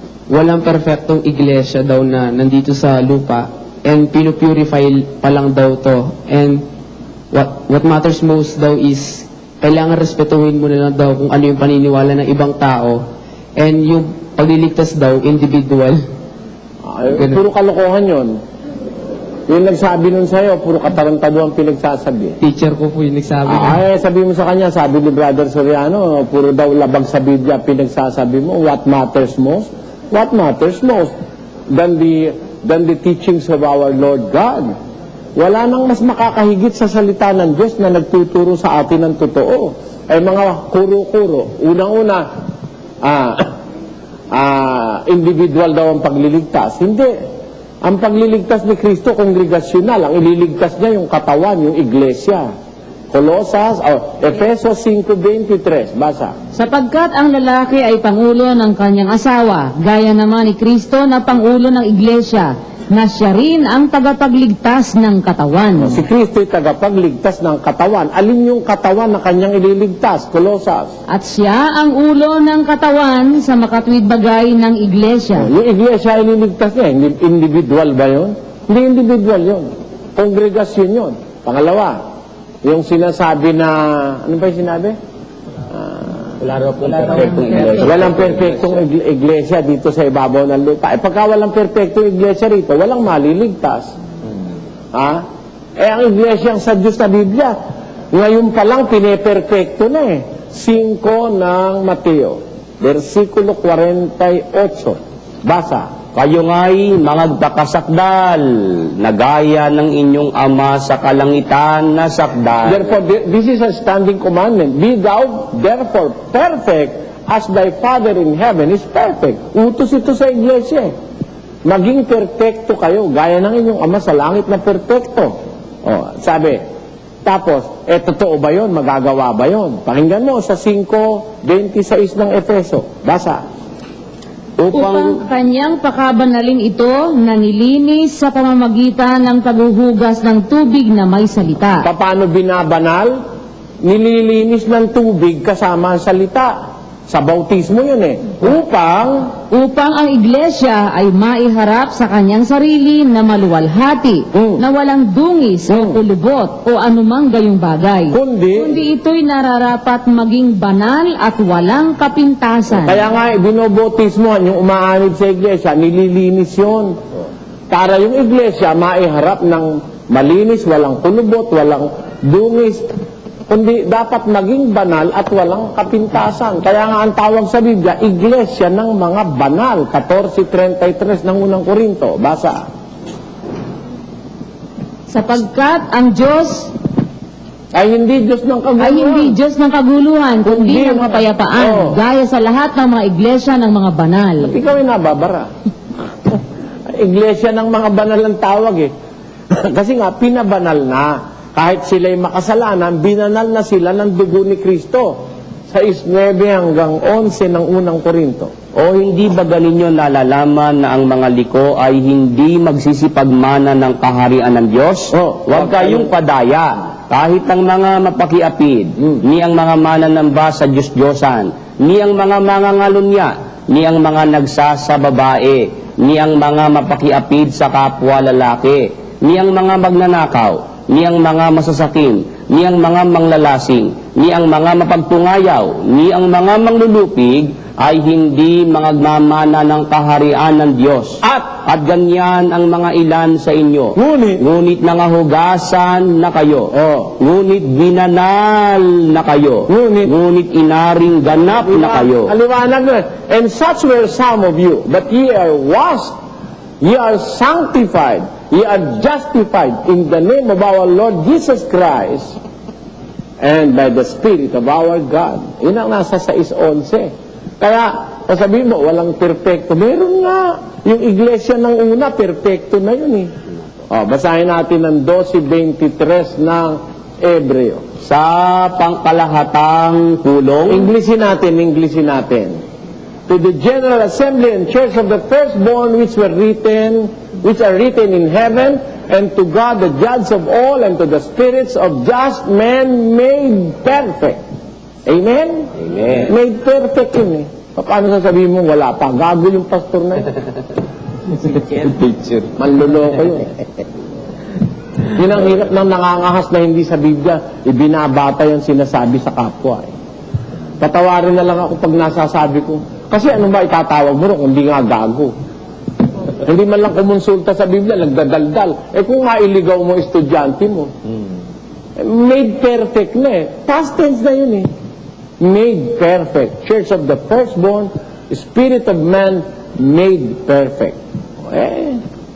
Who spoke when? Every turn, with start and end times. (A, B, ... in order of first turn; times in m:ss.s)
0:00.3-0:06.6 A
0:07.3-0:13.0 A
0:13.6-0:16.0 A
0:16.8-0:18.4 B
0:19.5-0:22.4 B
0:22.4-0:23.8 A
0:23.5-0:31.1 B
0:31.7-0:34.7 B
0:35.4-0:42.2 B
0:43.0-0:43.4 B
0:44.3-0:47.2 B
0:47.8-0:52.5 B
0:53.1-0:56.3 B
0:56.5-1:06.0 C
1:05.8-1:10.9 B
1:11.1-1:15.5 C
1:15.4-1:22.0 B
1:22.6-1:25.0 B
1:25.7-1:26.3 B
1:26.4-1:28.8 D
1:26.9-1:27.9 C
1:27.8-1:33.9 B
1:34.9-1:35.2 B
1:35.8-1:37.6 B
1:38.1-1:45.9 B
1:46.2-1:52.9 D
1:52.6-2:00.9 B
2:01.6-2:06.6 B
2:07.2-2:13.4 B
2:14.6-2:15.2 D
2:14.7-2:21.9 C
2:21.8-2:23.2 B
2:23.8-2:26.6 B
2:27.1-2:29.2 B
2:29.5-2:43.1 C
2:34.3-2:34.6 B
2:35.7-2:36.0 B
2:38.1-2:38.8 B
2:42.7-2:47.0 B
2:47.7-2:52.8 B
2:53.5-3:02.6 B
3:05.1-3:06.7 C
3:07.7-3:09.4 B
3:08.8-3:14.6 C
3:10.4-3:12.0 B
3:14.4-3:15.5 B
3:16.3-3:18.9 B
3:19.6-3:25.2 B
3:25.7-3:28.5 B
3:28.8-4:12.3 D
3:35.1-3:36.1 B
4:04.0-4:04.4 B
4:06.7-4:07.1 B
4:09.7-4:10.1 B
4:11.5-4:16.2 B
4:16.8-4:22.4 B
4:23.4-4:33.3 B
4:33.9-4:37.8 B
4:38.0-4:40.9 D
4:40.7-4:42.6 B
4:43.3-4:54.4 B
4:55.1-5:00.3 B
4:55.8-4:56.3 D
5:01.9-5:02.4 D
5:02.6-5:03.5 B
5:05.1-5:09.9 B
5:10.8-5:15.3 B
5:16.4-5:20.9 B
5:22.0-5:24.7 B
5:25.4-5:32.0 B